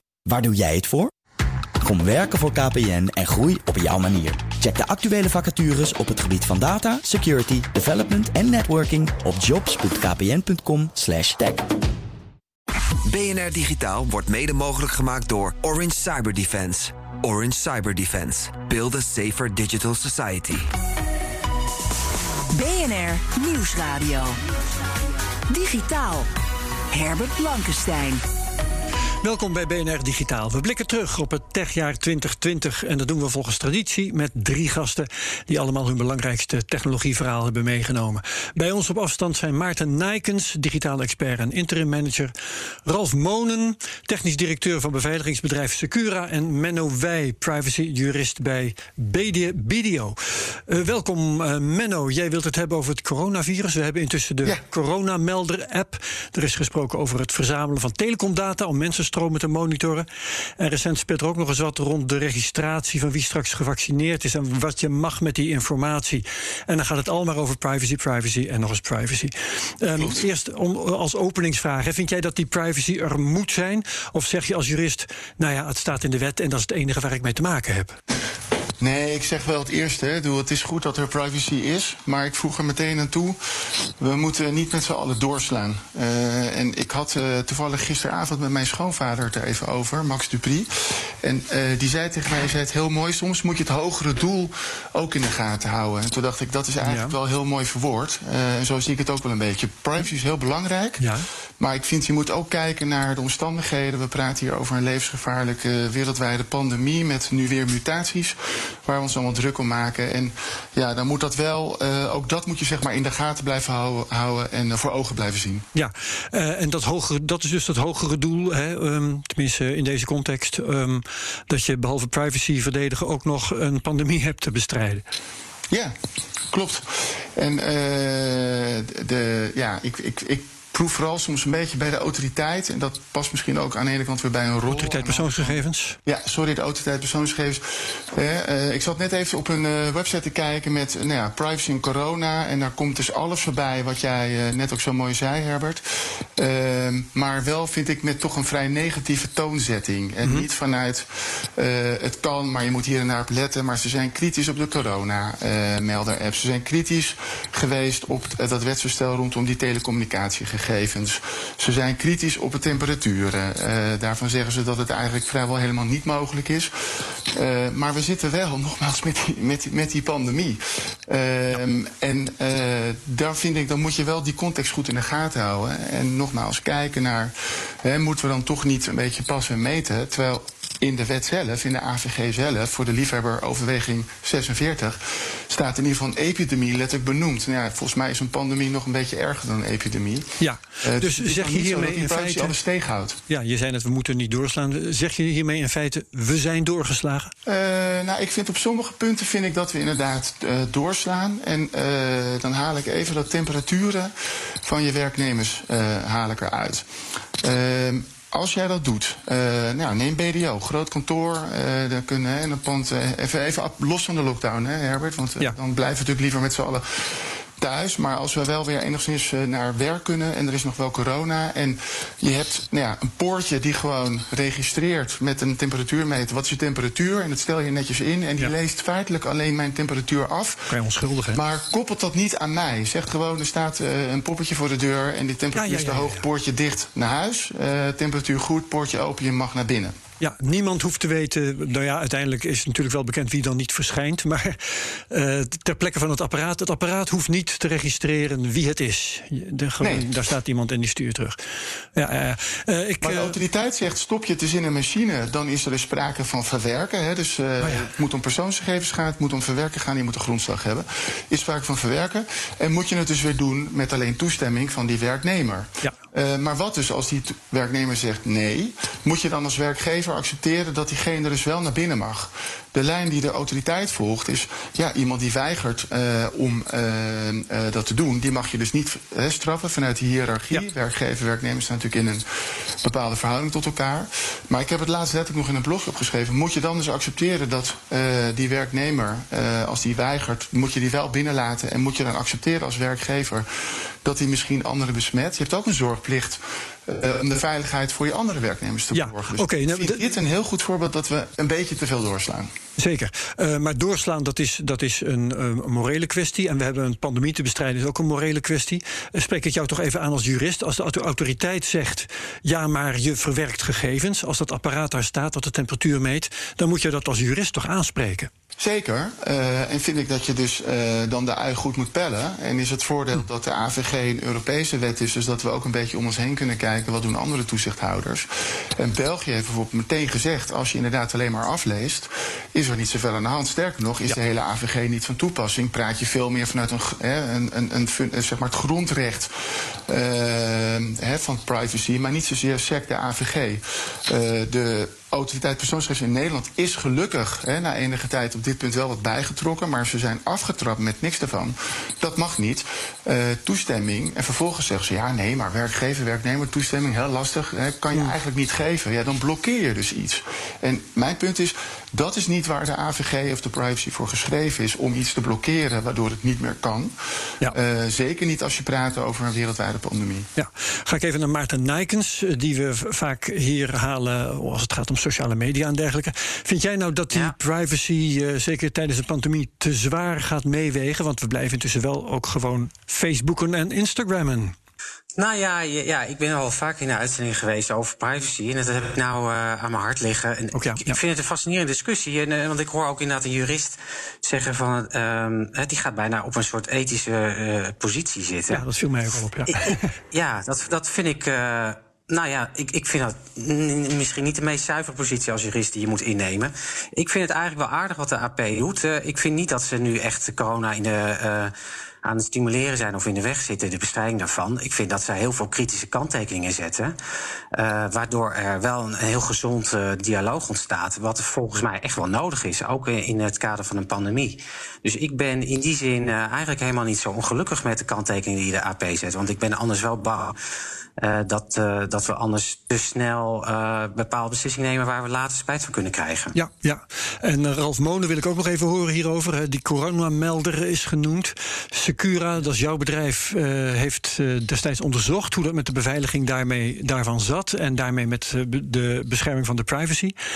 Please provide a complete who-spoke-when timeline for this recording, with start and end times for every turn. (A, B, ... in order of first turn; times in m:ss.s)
0:00.3-0:01.1 A
0:01.8-0:11.6 A
0:13.1-0:20.6 B
0:22.5-0:24.4 C
0:25.5-0:26.3 C
0:26.9-0:28.2 C
0:29.2-0:42.3 D
0:42.8-0:50.2 D
0:50.7-1:00.0 D
1:00.6-1:18.0 D
1:18.8-1:23.4 E
1:24.0-1:41.0 E
1:36.8-1:37.1 D
1:41.0-1:41.2 D
1:41.6-1:55.6 E
1:55.7-2:05.0 D
2:06.5-2:25.8 E
2:14.7-2:16.0 D
2:26.4-3:13.2 E
3:10.4-3:12.5 D
3:13.3-3:17.3 D
3:17.4-3:26.8 E
3:27.4-3:50.8 E
3:50.7-3:51.4 D
3:51.3-4:00.0 E
3:55.5-3:56.2 D
4:00.2-4:11.4 D
4:09.8-4:10.1 E
4:12.0-4:13.4 D
4:13.0-4:42.2 E
4:17.6-4:17.9 D
4:42.8-4:53.5 E
4:54.0-5:02.5 E
4:58.9-5:00.0 D
5:02.8-5:18.3 D
5:18.6-5:39.3 E
5:39.9-6:10.3 E
6:10.4-6:24.5 D
6:25.2-6:38.6 F
6:30.5-6:31.0 D
6:38.5-6:39.9 D
6:39.5-6:51.5 F
6:52.0-6:56.9 F
6:57.5-7:10.4 F
7:11.0-7:16.3 F
7:16.3-7:30.1 D